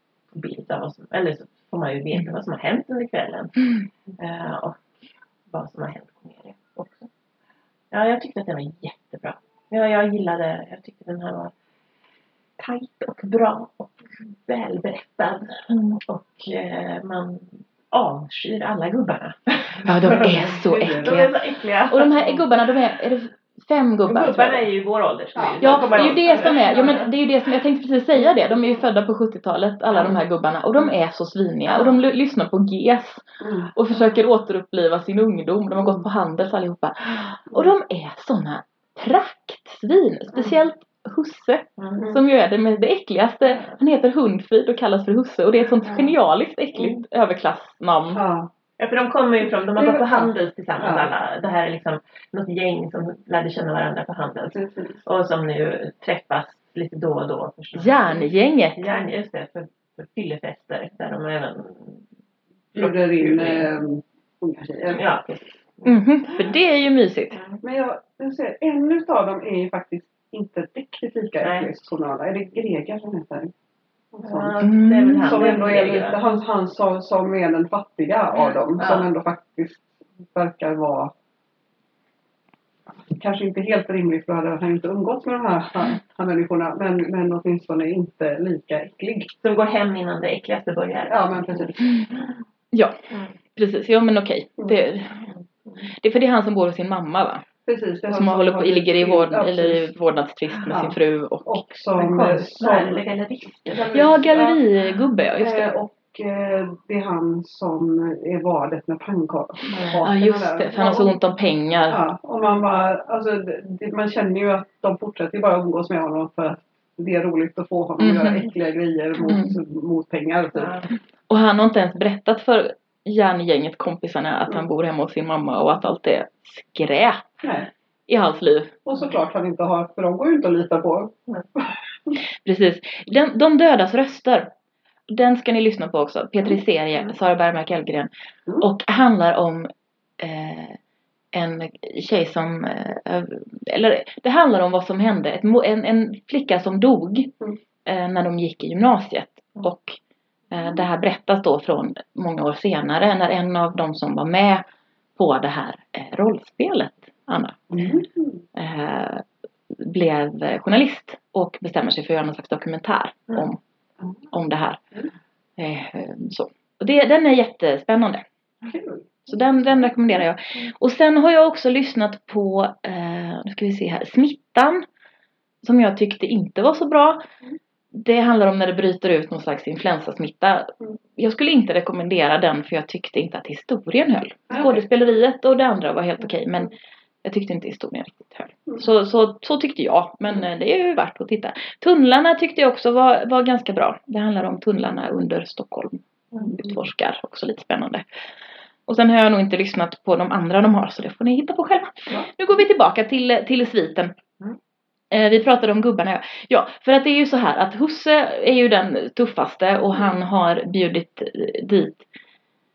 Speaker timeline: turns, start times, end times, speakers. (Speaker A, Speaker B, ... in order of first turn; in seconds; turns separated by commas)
Speaker A: 0.3-4.8, Speaker A: 5.5-7.1, Speaker A: 7.9-11.5, Speaker A: 12.6-22.5, Speaker B: 19.8-21.3, Speaker C: 20.1-21.2, Speaker B: 21.9-24.7, Speaker A: 24.1-27.1, Speaker C: 25.3-27.0, Speaker B: 25.6-33.2, Speaker C: 33.4-33.7, Speaker B: 33.7-48.2, Speaker A: 41.8-42.0, Speaker C: 48.1-48.5, Speaker A: 48.8-62.0, Speaker C: 49.5-51.1, Speaker C: 54.5-55.0, Speaker B: 57.8-58.9, Speaker A: 62.7-63.7, Speaker C: 62.7-65.0, Speaker A: 64.9-66.0, Speaker B: 65.8-67.4, Speaker A: 67.3-67.6, Speaker C: 67.6-73.5, Speaker A: 71.4-71.7, Speaker C: 74.1-81.1, Speaker A: 74.2-76.2, Speaker B: 74.6-75.4, Speaker A: 78.8-79.1, Speaker C: 83.1-89.3, Speaker A: 89.4-91.7, Speaker C: 91.1-91.9, Speaker B: 92.7-93.0, Speaker B: 93.5-95.2, Speaker B: 95.9-97.4, Speaker C: 97.7-99.9, Speaker B: 98.1-101.6, Speaker C: 100.6-103.0, Speaker A: 102.0-104.2, Speaker C: 103.7-104.6, Speaker B: 103.9-105.7, Speaker C: 105.4-111.2, Speaker A: 109.7-110.0, Speaker B: 110.0-112.0, Speaker C: 111.9-120.9, Speaker B: 118.0-118.5, Speaker B: 119.3-119.5, Speaker A: 120.5-120.9, Speaker B: 121.3-127.5, Speaker C: 127.4-127.7, Speaker B: 128.1-128.7, Speaker C: 128.8-132.2, Speaker B: 132.4-134.5, Speaker B: 135.1-138.1, Speaker B: 138.6-140.8, Speaker B: 141.3-147.3, Speaker B: 147.8-150.0, Speaker B: 150.5-154.6, Speaker B: 155.2-158.0, Speaker C: 157.7-158.4, Speaker B: 158.5-163.6, Speaker B: 164.3-164.8, Speaker B: 165.6-168.2, Speaker C: 168.7-169.9, Speaker B: 169.3-174.8, Speaker B: 175.6-177.2, Speaker B: 177.9-198.0, Speaker C: 184.5-184.8, Speaker B: 198.9-204.1, Speaker B: 205.1-212.0